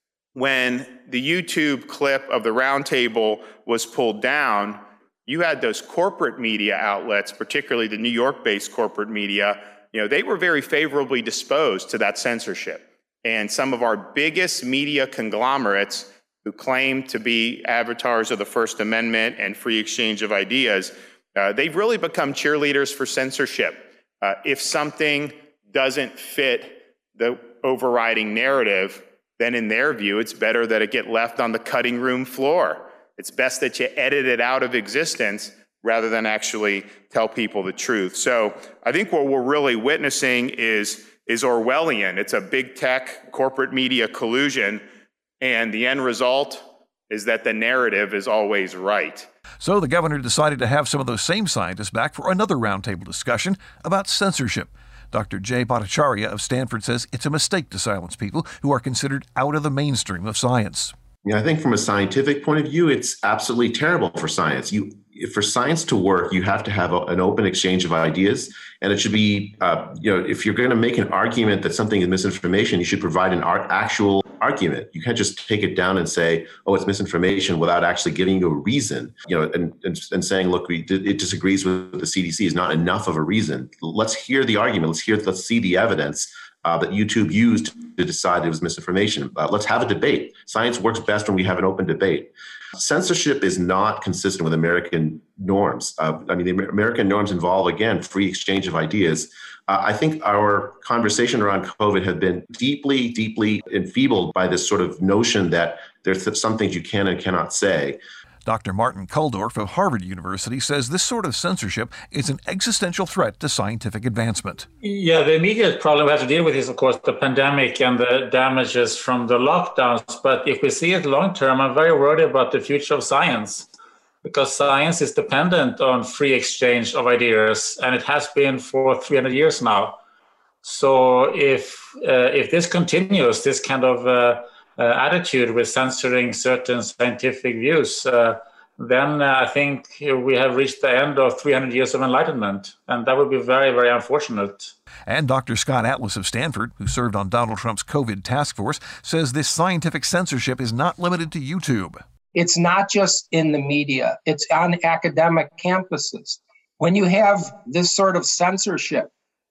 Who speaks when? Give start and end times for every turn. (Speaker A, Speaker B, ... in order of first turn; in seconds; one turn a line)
Speaker A: 0.3-44.8
Speaker A: 45.4-49.3
Speaker B: 49.6-60.9
Speaker C: 61.2-108.0
Speaker B: 108.5-114.7
Speaker D: 114.8-123.7
Speaker D: 124.2-130.0
Speaker D: 130.6-144.7
Speaker B: 145.1-152.0
Speaker E: 152.3-159.1